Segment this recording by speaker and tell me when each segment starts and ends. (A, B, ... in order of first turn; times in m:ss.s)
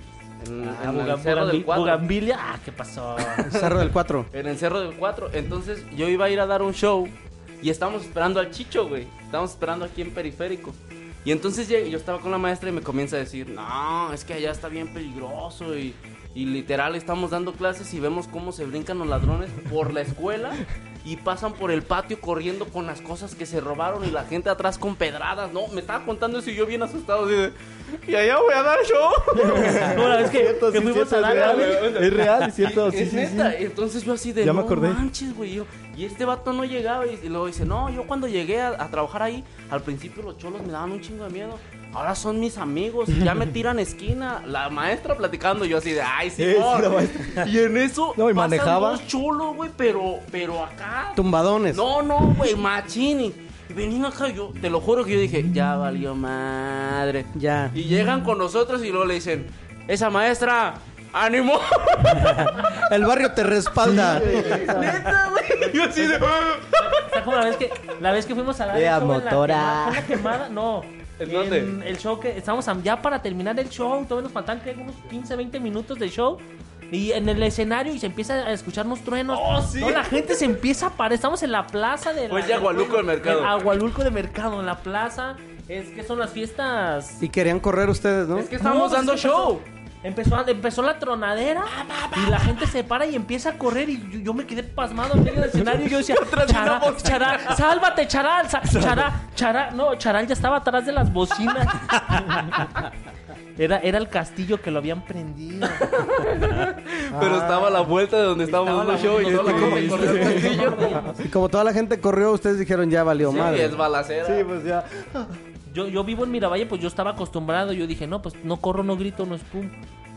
0:00.4-0:02.0 A
0:00.6-0:03.5 B
0:03.4-0:04.3 C
0:03.5-0:30.0 A
0:29.3-0:33.6 D
0:29.5-0:31.9 B
0:31.3-1:02.7 A
0:34.4-0:35.0 D
0:46.4-0:47.5 D
0:48.1-0:49.0 D
0:51.1-0:51.8 C
0:57.3-0:57.7 C
1:02.7-1:04.5 C
1:03.8-1:05.1 D
1:04.1-1:07.1 A
1:06.0-1:06.2 B
1:06.8-1:27.2 B
1:08.7-1:10.1 D
1:11.2-1:11.8 A
1:19.3-1:20.1 A
1:22.3-1:23.6 A
1:27.2-1:28.5 C
1:28.3-1:29.6 A
1:28.6-1:42.6 B
1:31.7-1:32.6 A
1:35.8-1:37.6 A
1:43.6-1:46.0 B
1:45.8-1:51.0 A
1:47.1-1:47.9 D
1:48.5-1:51.2 B
1:49.1-1:51.2 D
1:51.2-1:53.8 C
1:53.2-1:54.5 A
1:54.2-1:55.4 D
1:55.7-1:59.7 B